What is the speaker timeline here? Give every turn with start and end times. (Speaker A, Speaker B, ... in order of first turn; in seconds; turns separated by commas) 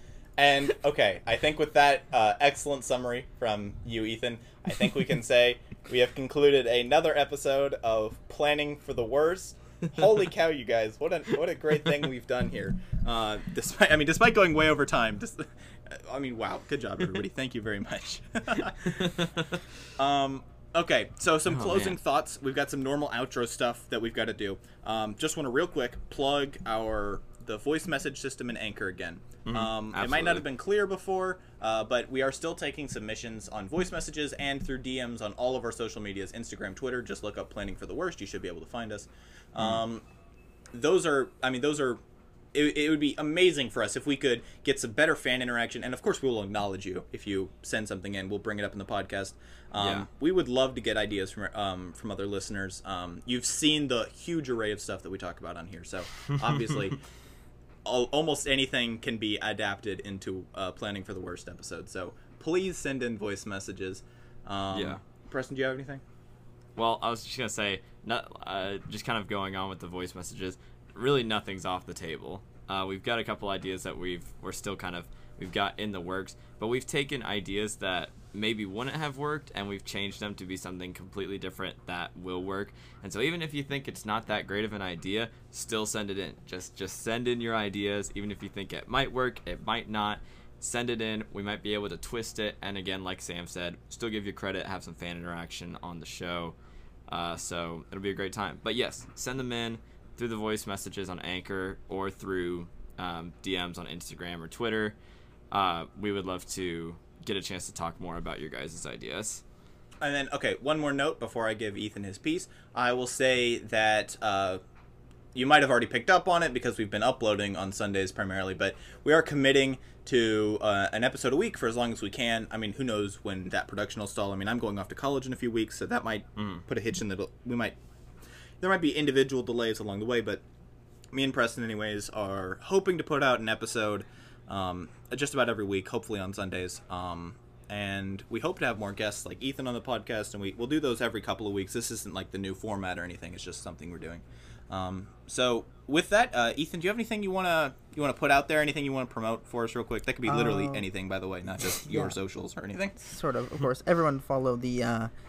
Speaker A: 0.4-19.2, Speaker B: 18.9-19.5, Speaker A: 20.0-40.0, Speaker B: 21.5-22.0, Speaker B: 29.5-30.4, Speaker A: 40.7-42.0, Speaker A: 42.5-57.0, Speaker B: 49.8-50.0, Speaker A: 57.8-66.0, Speaker B: 64.7-65.0, Speaker B: 66.8-96.5, Speaker B: 97.1-105.0, Speaker B: 105.5-109.4, Speaker A: 110.0-114.6, Speaker A: 115.3-127.8, Speaker A: 128.6-130.4, Speaker A: 131.1-153.0, Speaker C: 150.2-150.8, Speaker C: 151.8-152.2, Speaker C: 153.0-155.1